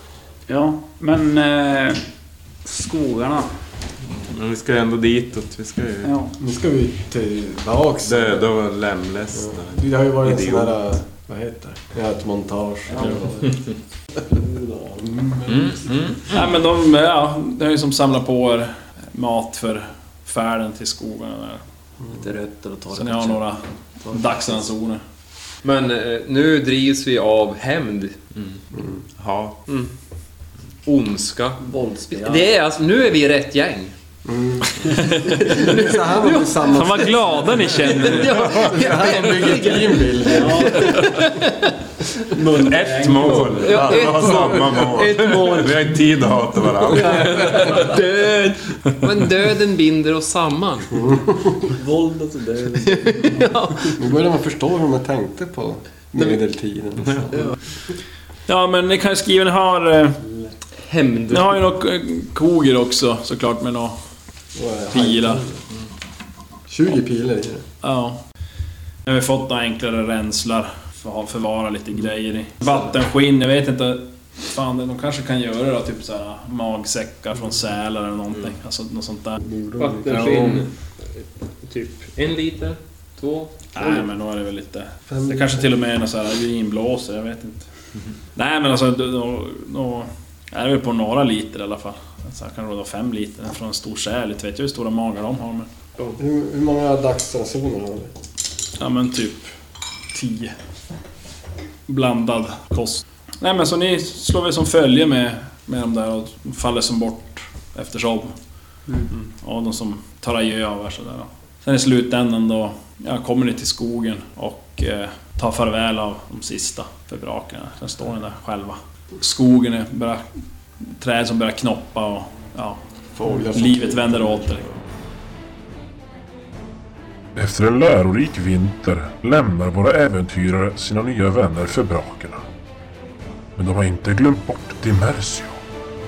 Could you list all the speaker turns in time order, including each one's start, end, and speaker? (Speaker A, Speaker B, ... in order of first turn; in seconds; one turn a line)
Speaker A: 0.5-2.0
Speaker A: 2.6-3.5
Speaker B: 4.1-6.1
Speaker A: 6.0-6.3
Speaker C: 6.4-8.5
Speaker B: 8.0-10.7
Speaker C: 9.4-13.5
Speaker A: 12.9-13.5
Speaker C: 14.2-15.9
Speaker B: 15.5-16.4
Speaker D: 16.3-21.6
Speaker A: 22.1-23.4
Speaker D: 22.9-25.0
Speaker A: 24.0-24.7
Speaker E: 25.6-28.2
Speaker C: 28.8-29.0
Speaker B: 29.2-29.6
Speaker E: 30.9-33.9
Speaker A: 31.6-32.5
Speaker C: 34.2-41.1
Speaker D: 35.0-35.4
Speaker E: 35.3-36.8
Speaker D: 36.7-38.5
Speaker E: 37.8-41.0
Speaker A: 40.3-41.5
Speaker A: 42.3-46.0
Speaker B: 42.5-47.9
Speaker E: 43.4-45.7
Speaker E: 46.8-51.0
Speaker C: 51.0-51.5
Speaker A: 51.7-53.5
Speaker E: 52.8-54.0
Speaker C: 53.9-57.5
Speaker D: 58.5-60.2
Speaker E: 60.9-61.5
Speaker D: 61.3-64.0
Speaker C: 64.5-65.6
Speaker D: 64.9-65.5
Speaker C: 66.7-67.6
Speaker D: 67.8-68.2
Speaker D: 69.0-79.4
Speaker C: 79.4-80.6
Speaker E: 79.8-84.0
Speaker B: 80.1-80.7
Speaker D: 83.8-87.7
Speaker C: 85.1-85.7
Speaker D: 88.4-95.7
Speaker C: 96.2-98.1
Speaker D: 98.8-99.5
Speaker D: 100.1-100.5
Speaker D: 101.9-108.4
Speaker D: 109.4-120.3
Speaker D: 120.8-122.8
Speaker C: 123.1-124.8
Speaker D: 123.5-124.7
Speaker F: 127.3-132.4
Speaker F: 133.6-135.6